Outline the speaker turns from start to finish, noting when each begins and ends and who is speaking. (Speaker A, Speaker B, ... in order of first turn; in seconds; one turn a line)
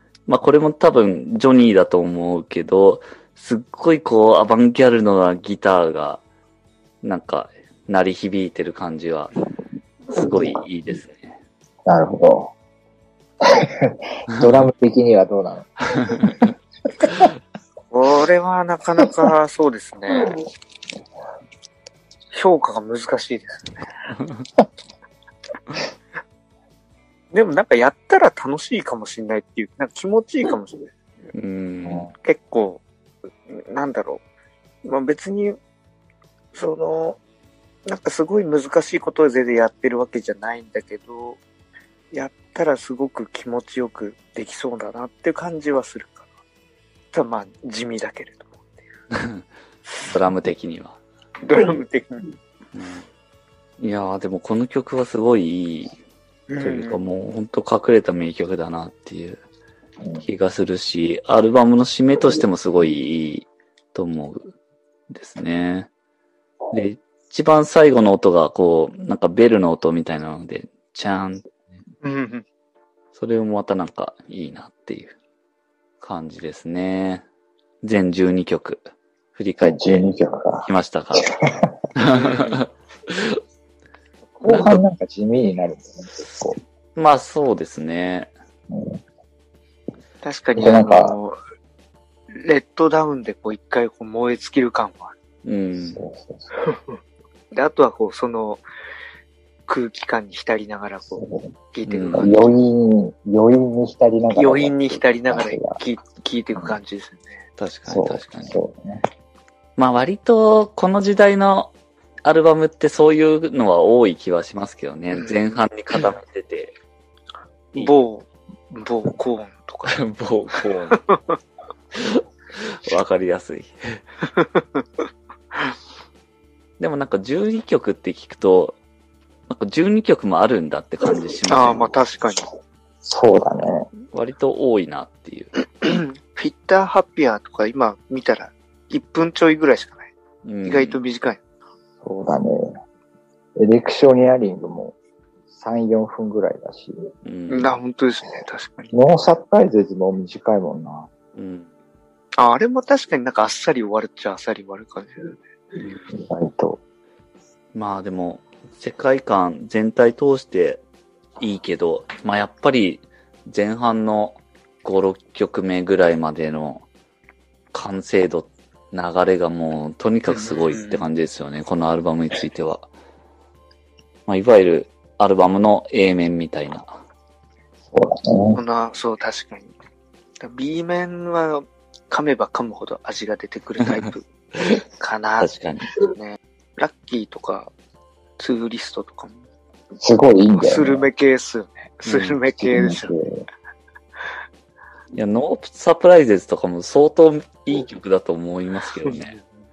Speaker A: 0.3-6.2
Speaker A: 7.0-9.3
Speaker A: 10.1-11.4
Speaker B: 11.9-12.5
Speaker B: 13.4-16.3
Speaker A: 16.0-16.4
Speaker C: 17.9-20.4
Speaker C: 22.3-23.9
Speaker A: 24.2-24.4
Speaker C: 27.3-30.9
Speaker A: 31.3-32.1
Speaker B: 31.9-32.1
Speaker C: 32.2-32.8
Speaker C: 33.5-34.2
Speaker C: 34.8-35.6
Speaker C: 36.5-37.2
Speaker C: 37.9-41.4
Speaker C: 42.1-46.2
Speaker C: 47.1-48.5
Speaker A: 49.1-49.5
Speaker A: 50.0-51.0
Speaker C: 51.4-52.3
Speaker A: 52.7-53.1
Speaker A: 53.8-56.0
Speaker C: 56.5-57.0
Speaker A: 56.6-59.4
Speaker B: 60.0-60.3
Speaker A: 60.2-64.5
Speaker A: 65.1-65.9
Speaker A: 66.7-71.6
Speaker C: 72.0-72.5
Speaker A: 73.1-75.2
Speaker A: 76.0-77.2
Speaker A: 77.8-80.1
Speaker B: 79.6-81.8
Speaker A: 80.6-81.3
Speaker A: 82.0-83.4
Speaker B: 84.4-86.6
Speaker A: 84.5-84.8
Speaker A: 87.0-88.3
Speaker B: 88.7-89.0
Speaker C: 90.2-91.4
Speaker B: 90.6-91.2
Speaker C: 92.3-95.1
Speaker A: 95.4-96.0
Speaker B: 95.8-96.5
Speaker C: 97.5-98.6
Speaker C: 99.7-101.2
Speaker B: 101.1-101.5
Speaker C: 101.7-102.5
Speaker A: 101.9-102.5
Speaker B: 102.1-105.8
Speaker C: 104.3-107.4
Speaker A: 107.6-108.6
Speaker B: 107.9-109.0
Speaker A: 109.8-111.7
Speaker A: 112.2-116.7
Speaker C: 115.1-115.4
Speaker C: 117.7-120.0
Speaker A: 119.9-121.0
Speaker C: 120.5-121.2
Speaker A: 122.0-124.0
Speaker C: 124.3-124.8
Speaker A: 126.8-128.8
Speaker A: 129.5-132.2
Speaker C: 131.5-132.4
Speaker B: 133.0-133.9
Speaker A: 134.1-135.5
Speaker C: 135.8-140.1
Speaker A: 140.4-141.0
Speaker C: 140.6-141.4
Speaker B: 142.0-142.7
Speaker B: 143.6-145.0
Speaker B: 145.5-147.0
Speaker A: 147.2-147.7
Speaker C: 147.5-148.9
Speaker B: 148.9-151.1
Speaker A: 151.3-151.7
Speaker C: 152.4-155.4
Speaker B: 156.1-156.8
Speaker A: 157.7-160.8
Speaker A: 161.4-166.9
Speaker A: 167.7-172.9
Speaker C: 170.3-171.0
Speaker A: 174.3-177.0
Speaker B: 177.9-178.6
Speaker C: 178.6-179.8
Speaker C: 180.4-184.2
Speaker A: 184.0-184.8
Speaker C: 184.8-187.7
Speaker A: 185.4-185.9
Speaker C: 188.4-189.4
Speaker B: 190.0-191.1
Speaker C: 190.5-193.1
Speaker A: 192.1-192.4
Speaker B: 192.6-193.5
Speaker A: 195.2-199.4